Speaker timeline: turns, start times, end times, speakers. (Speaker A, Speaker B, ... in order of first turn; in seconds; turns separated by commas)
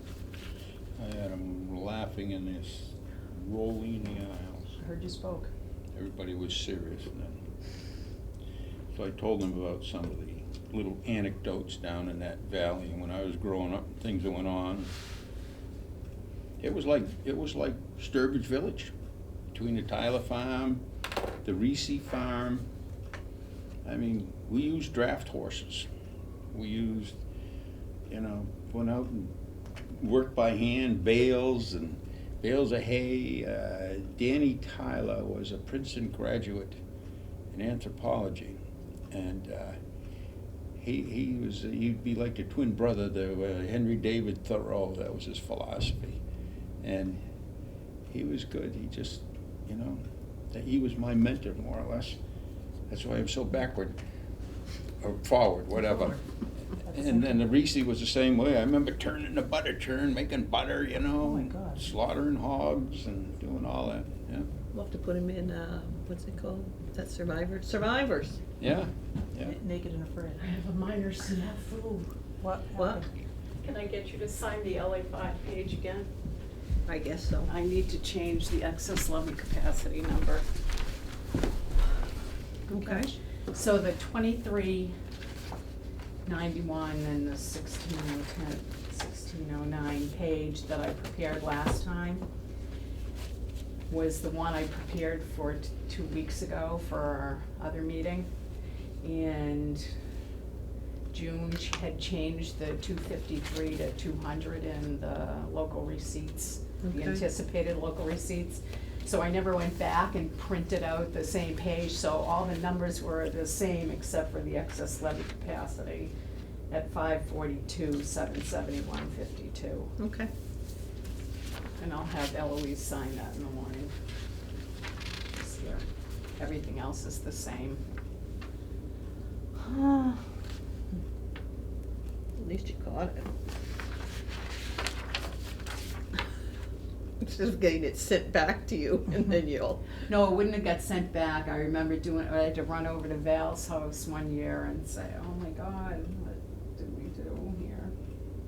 Speaker A: 1.0-4.7, Speaker B: 4.8-5.5, Speaker A: 5.9-7.4, Speaker A: 8.9-14.9, Speaker A: 16.6-18.9, Speaker A: 19.5-20.8, Speaker A: 21.4-22.7, Speaker A: 23.8-25.9, Speaker A: 26.5-27.2, Speaker A: 28.1-29.3, Speaker A: 29.9-36.8, Speaker A: 37.5-38.6, Speaker A: 39.1-39.8, Speaker A: 40.8-46.2, Speaker A: 46.8-47.2, Speaker A: 48.1-52.2, Speaker A: 52.9-54.0, Speaker A: 55.0-56.2, Speaker B: 55.8-56.2, Speaker B: 56.8-57.4, Speaker A: 56.9-64.5, Speaker B: 61.2-61.8, Speaker C: 64.7-68.4, Speaker A: 68.6-69.5, Speaker B: 69.4-70.4, Speaker D: 70.4-72.1, Speaker B: 72.4-73.1, Speaker C: 72.8-73.0, Speaker D: 73.6-76.1, Speaker C: 76.8-77.5, Speaker D: 77.5-80.5, Speaker C: 82.7-83.1, Speaker D: 82.7-84.9, Speaker D: 86.2-92.2, Speaker D: 93.9-98.3, Speaker D: 99.0-99.9, Speaker D: 101.1-116.1, Speaker C: 106.8-107.2, Speaker D: 116.7-119.9, Speaker C: 120.0-120.3, Speaker D: 121.8-123.9, Speaker D: 125.3-125.8, Speaker D: 126.4-127.8, Speaker D: 129.6-130.2, Speaker C: 132.4-133.3, Speaker C: 137.2-139.9, Speaker D: 140.1-147.9